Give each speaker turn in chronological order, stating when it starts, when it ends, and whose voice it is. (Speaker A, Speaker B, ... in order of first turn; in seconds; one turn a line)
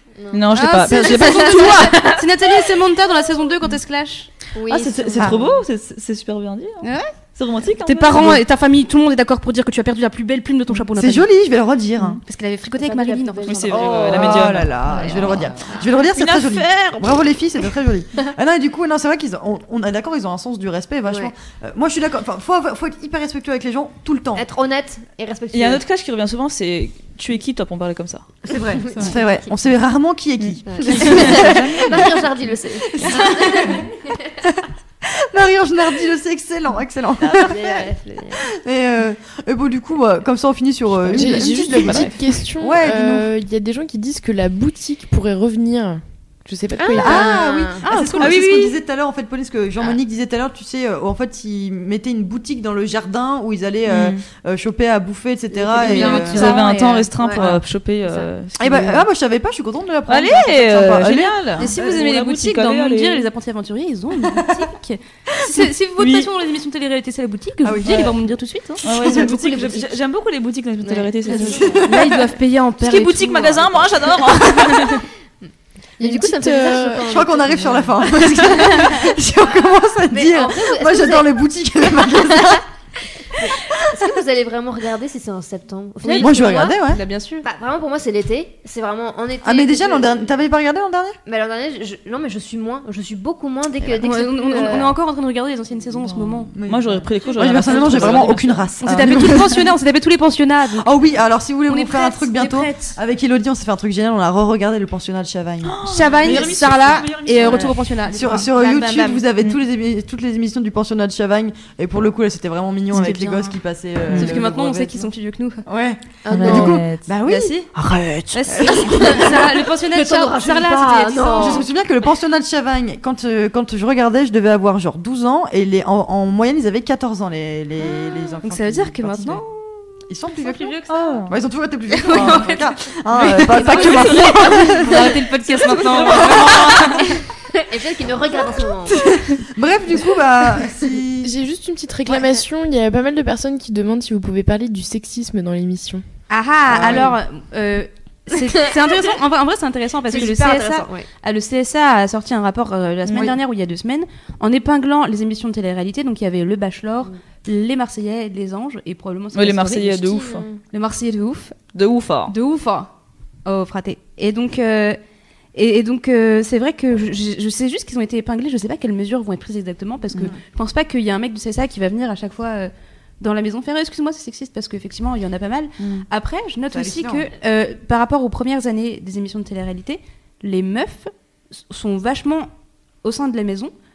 Speaker A: 0.2-1.9
Speaker B: 0.3-2.2
Speaker C: 0.5-4.3
Speaker A: 4.5-5.6
Speaker B: 4.7-8.4
Speaker D: 5.2-5.5
Speaker C: 6.8-7.1
Speaker C: 7.8-11.3
Speaker D: 10.9-12.2
Speaker C: 12.2-14.1
Speaker A: 12.8-15.8
Speaker B: 13.5-15.2
Speaker D: 14.0-24.4
Speaker B: 16.1-17.3
Speaker A: 21.0-21.3
Speaker A: 24.4-25.8
Speaker B: 25.5-28.2
Speaker A: 28.4-29.3
Speaker D: 28.5-32.1
Speaker B: 30.4-31.7
Speaker A: 30.6-34.2
Speaker D: 32.9-33.9
Speaker D: 34.4-37.9
Speaker A: 37.2-38.4
Speaker D: 38.4-43.3
Speaker B: 41.0-42.2
Speaker E: 41.1-47.3
Speaker A: 46.8-47.8
Speaker D: 47.0-56.5
Speaker C: 47.0-48.6
Speaker B: 48.2-48.6
Speaker B: 53.9-54.2
Speaker A: 55.7-56.6
Speaker C: 55.7-57.6
Speaker B: 55.9-59.1
Speaker D: 58.6-62.0
Speaker B: 60.1-63.3
Speaker C: 61.6-68.8
Speaker B: 66.0-66.3
Speaker D: 67.6-68.1
Speaker B: 67.8-68.1
Speaker B: 68.8-71.8
Speaker D: 68.8-69.3
Speaker A: 69.0-70.0
Speaker A: 70.8-71.8
Speaker C: 71.3-75.0
Speaker D: 71.4-72.2
Speaker B: 72.8-75.0
Speaker E: 76.0-77.1
Speaker A: 76.0-79.0
Speaker D: 77.0-82.6
Speaker A: 80.1-82.6
Speaker A: 83.3-86.8
Speaker C: 86.0-87.4
Speaker D: 86.2-87.0
Speaker A: 87.4-90.4
Speaker D: 89.4-91.2
Speaker A: 91.2-94.9
Speaker C: 93.8-96.5
Speaker B: 95.9-99.2
Speaker D: 96.5-99.6
Speaker C: 97.6-100.9
Speaker D: 100.8-106.3
Speaker C: 101.7-103.0
Speaker B: 105.6-107.8
Speaker C: 105.8-109.2
Speaker D: 108.1-115.1
Speaker C: 112.9-113.6
Speaker B: 114.1-114.3
Speaker C: 114.1-115.7
Speaker D: 115.7-119.4
Speaker A: 116.2-116.8
Speaker B: 116.3-117.1
Speaker C: 117.2-117.7
Speaker B: 117.8-118.3
Speaker C: 118.3-121.7
Speaker A: 118.7-121.6
Speaker D: 121.4-129.4
Speaker C: 128.4-131.2
Speaker D: 130.1-137.0
Speaker B: 130.9-131.3
Speaker C: 131.9-137.0
Speaker A: 132.1-132.5
Speaker A: 137.5-139.0
Speaker D: 138.9-141.3
Speaker E: 141.2-146.0
Speaker C: 146.3-160.1
Speaker D: 146.7-147.1
Speaker A: 150.1-151.1
Speaker B: 159.3-160.4
Speaker A: 160.1-160.6
Speaker C: 160.7-161.6
Speaker B: 161.7-162.3
Speaker C: 162.3-162.9
Speaker C: 163.4-165.0
Speaker C: 165.5-182.5
Speaker B: 175.8-176.0
Speaker D: 176.7-177.3
Speaker C: 183.0-183.7